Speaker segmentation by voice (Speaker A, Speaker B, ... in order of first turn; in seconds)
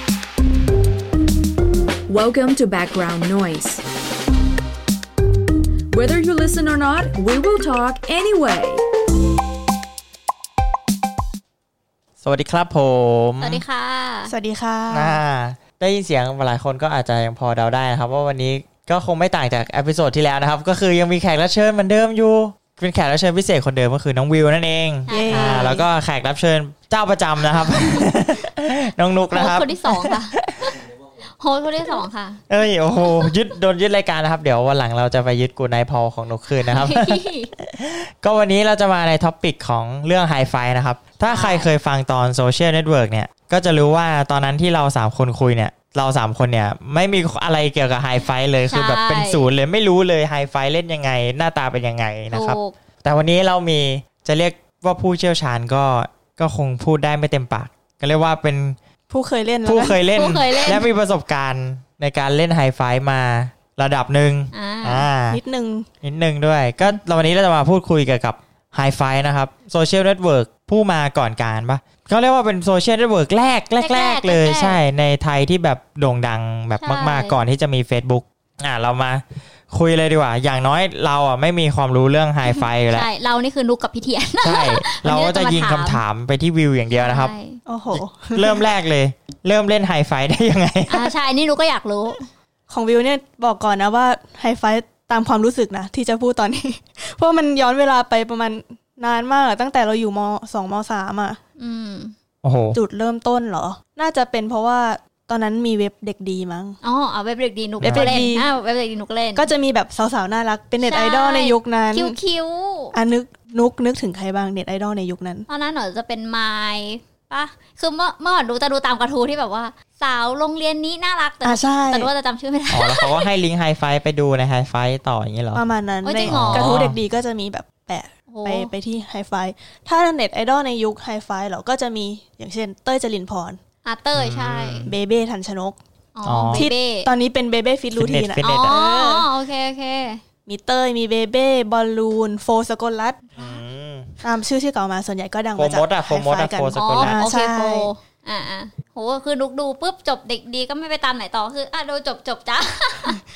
Speaker A: 2.1-3.8, 5.9-8.8
Speaker B: 12.2-13.6, 14.9-30.7, 32.5-58.8, 59.6-65.4, 66.0-83.1, 84.4-87.3, 87.9-91.1, 102.4-102.8, 107.8-108.2, 122.7-125.6, 126.2-127.0, 134.1-134.9, 136.2-136.7, 137.9-138.7, 143.4-144.2, 145.6-147.2
Speaker C: 13.4-14.3, 25.1-25.8, 27.7-28.1, 29.3-30.8, 31.4-32.4, 33.0-33.3, 36.6-37.5, 41.2-41.7, 48.7-49.5, 52.3-52.7, 60.1-60.9, 64.5-65.1, 73.8-74.8, 76.7-77.4, 82.9-86.0, 86.9-87.6, 90.9-92.2, 101.6-102.1, 106.8-109.5, 110.8-113.0, 115.5-123.3, 126.0-126.8, 128.3-128.7, 133.8-134.9, 136.1-137.1, 138.4-140.2, 143.3-143.6, 146.7-153.2
Speaker D: 14.2-15.2, 25.1-25.9, 59.1-60.0, 65.3-65.9, 87.7-88.7, 92.7-101.4, 102.7-106.8, 107.8-108.5, 109.3-112.2, 112.9-115.5, 121.4-122.1, 125.5-133.6, 134.8-135.8, 136.5-139.3, 140.4-143.2, 144.2-147.9